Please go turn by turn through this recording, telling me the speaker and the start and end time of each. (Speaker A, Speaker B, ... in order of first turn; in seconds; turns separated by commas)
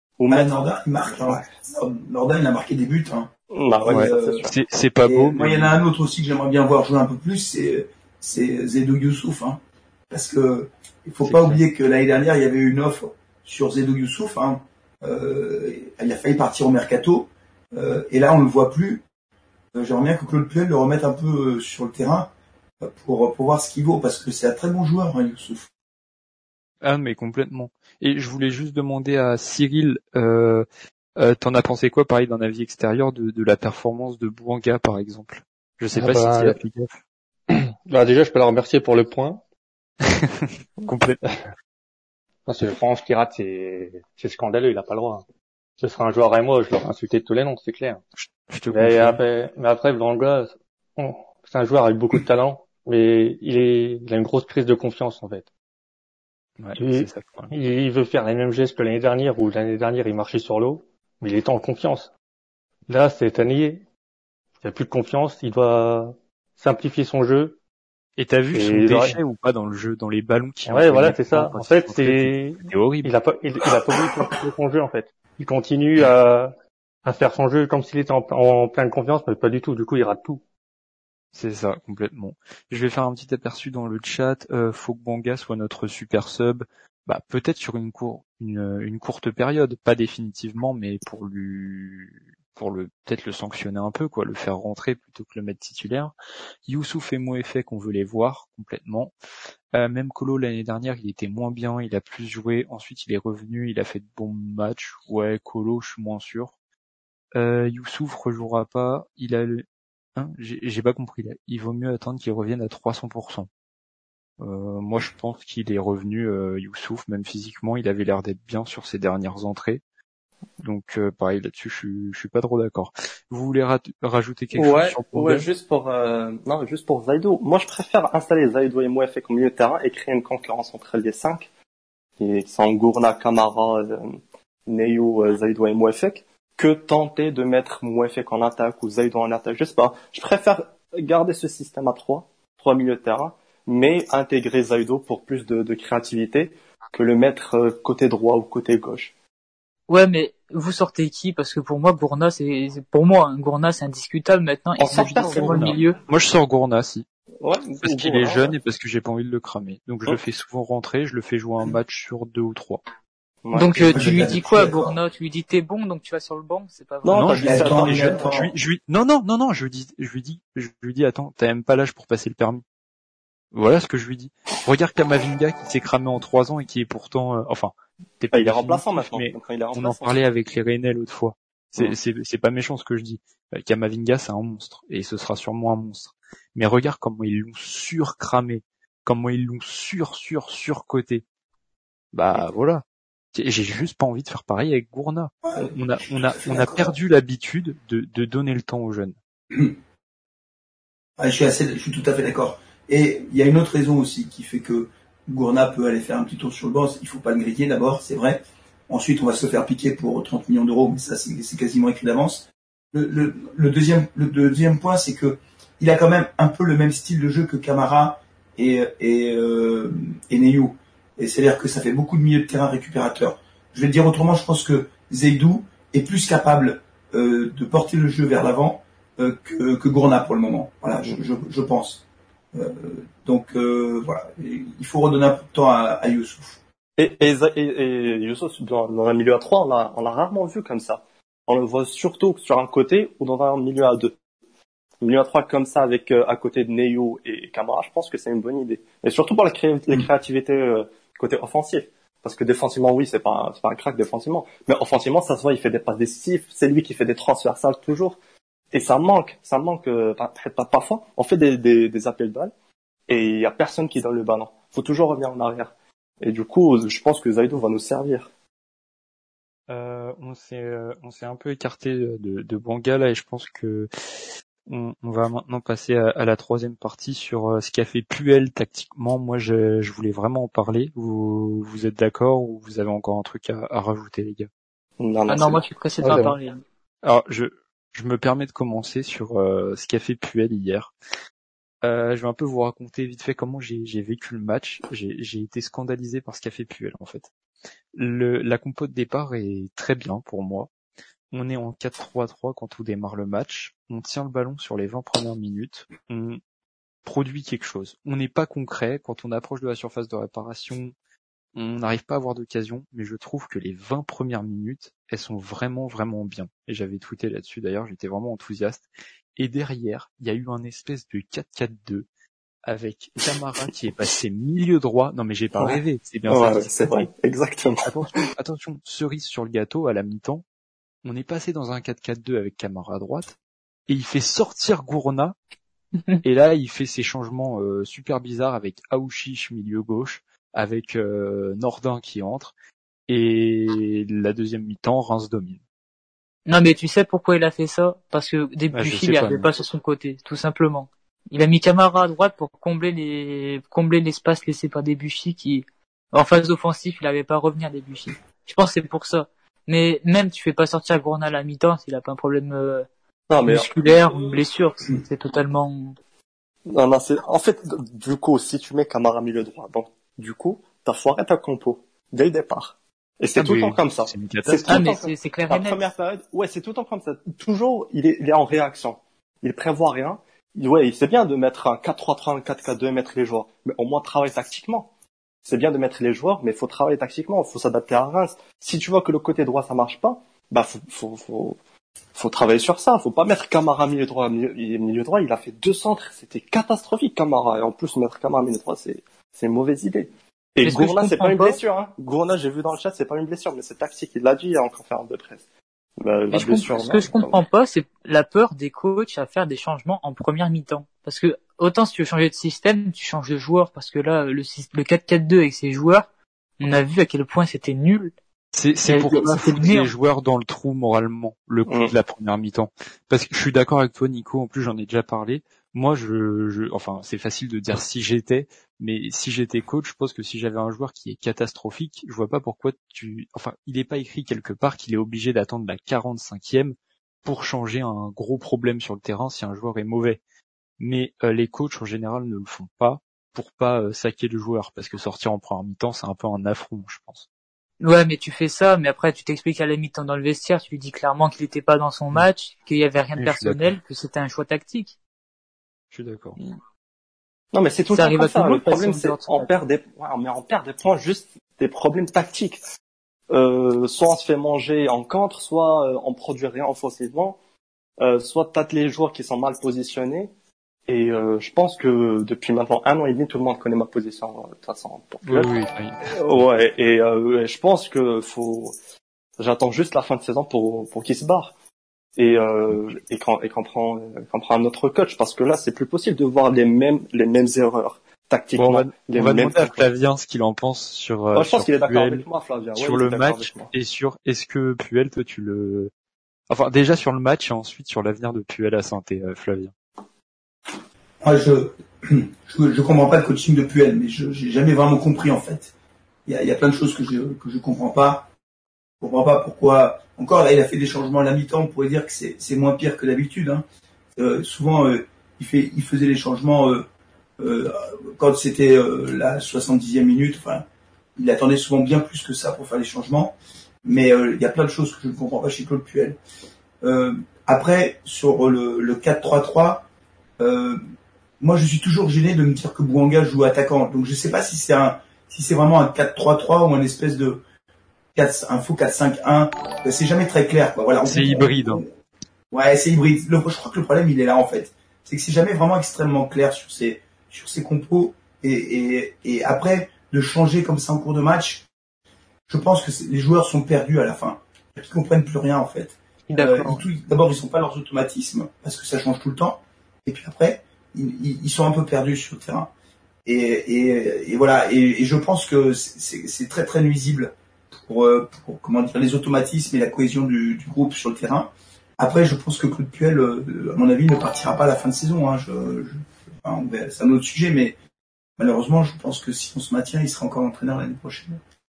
Speaker A: 0.2-1.5, Speaker B: 0.3-3.3, Speaker A: 3.5-4.5, Speaker B: 3.8-4.5, Speaker C: 3.9-5.8, Speaker B: 5.0-19.0, Speaker C: 11.2-11.6, Speaker B: 19.7-22.3, Speaker B: 22.8-25.7, Speaker C: 26.8-30.6, Speaker C: 31.2-36.9, Speaker D: 35.9-36.6, Speaker D: 37.5-39.4, Speaker C: 40.1-41.2, Speaker D: 42.5-45.2, Speaker D: 45.8-48.0, Speaker C: 48.2-49.2, Speaker D: 48.7-55.5, Speaker C: 56.6-57.5, Speaker D: 56.8-62.1, Speaker D: 62.9-63.8, Speaker D: 64.6-67.6, Speaker C: 68.2-73.1, Speaker D: 68.5-69.2, Speaker D: 70.6-76.5, Speaker D: 77.0-80.4, Speaker C: 81.3-96.1, Speaker C: 96.7-99.1, Speaker C: 99.7-106.5, Speaker C: 107.3-109.6, Speaker C: 110.2-113.5, Speaker C: 114.4-119.8, Speaker C: 120.6-125.5, Speaker A: 124.5-131.5, Speaker A: 132.2-134.1, Speaker A: 134.7-149.1, Speaker E: 149.9-156.0, Speaker A: 154.8-155.8, Speaker C: 154.9-157.1, Speaker A: 157.4-158.5, Speaker C: 157.8-162.8, Speaker A: 163.4-163.9, Speaker E: 163.5-167.8, Speaker B: 163.9-164.9, Speaker C: 164.0-164.3, Speaker A: 167.0-168.3, Speaker C: 167.1-172.6, Speaker B: 167.4-168.5, Speaker C: 173.5-191.2, Speaker A: 178.3-180.2, Speaker C: 192.1-199.2, Speaker B: 195.4-196.9, Speaker B: 199.5-199.8, Speaker B: 201.2-236.6, Speaker A: 237.0-244.1, Speaker A: 245.0-258.2, Speaker A: 258.7-262.5, Speaker A: 263.1-268.3, Speaker C: 269.7-273.9, Speaker C: 274.7-284.5, Speaker A: 285.0-285.6, Speaker E: 285.3-286.6, Speaker D: 286.0-286.4, Speaker C: 287.0-290.9, Speaker C: 291.8-297.3, Speaker C: 297.9-300.7, Speaker C: 301.3-306.4, Speaker C: 307.0-310.9, Speaker C: 311.6-322.1, Speaker C: 322.7-327.1, Speaker A: 325.6-328.2, Speaker C: 327.8-330.4, Speaker C: 331.0-333.4, Speaker C: 333.9-335.4, Speaker C: 336.2-342.5, Speaker C: 343.1-345.6, Speaker E: 346.5-362.9, Speaker C: 348.7-349.5, Speaker A: 363.3-364.0, Speaker E: 363.4-365.9, Speaker A: 366.7-384.9, Speaker C: 373.4-374.9, Speaker E: 374.7-375.9, Speaker A: 385.4-391.6, Speaker A: 392.1-405.4, Speaker E: 400.6-401.6, Speaker A: 406.0-407.4, Speaker E: 406.3-416.1, Speaker E: 416.6-418.1, Speaker C: 418.5-436.7, Speaker E: 418.9-419.9, Speaker A: 421.7-421.9, Speaker C: 437.2-440.2, Speaker C: 440.8-447.2, Speaker E: 447.8-454.9, Speaker C: 453.2-453.7, Speaker C: 455.9-456.4, Speaker A: 457.5-462.6, Speaker E: 457.9-459.5, Speaker A: 463.3-467.4, Speaker A: 468.0-470.3, Speaker A: 470.9-475.5, Speaker C: 475.2-476.4, Speaker A: 476.1-478.7, Speaker A: 479.4-481.5, Speaker A: 482.1-489.9, Speaker C: 488.6-492.2, Speaker A: 491.3-493.7, Speaker C: 492.8-495.9, Speaker C: 496.5-499.7, Speaker B: 501.2-505.7, Speaker B: 506.2-508.3, Speaker B: 509.0-513.6, Speaker B: 514.2-516.9, Speaker B: 517.4-520.6, Speaker B: 521.2-526.2, Speaker B: 526.8-529.9, Speaker B: 530.4-530.8, Speaker B: 531.4-537.4, Speaker B: 538.1-541.9, Speaker C: 541.0-541.8, Speaker B: 542.5-551.6, Speaker B: 552.5-562.7, Speaker E: 556.3-556.9, Speaker B: 563.2-577.8, Speaker B: 578.4-581.4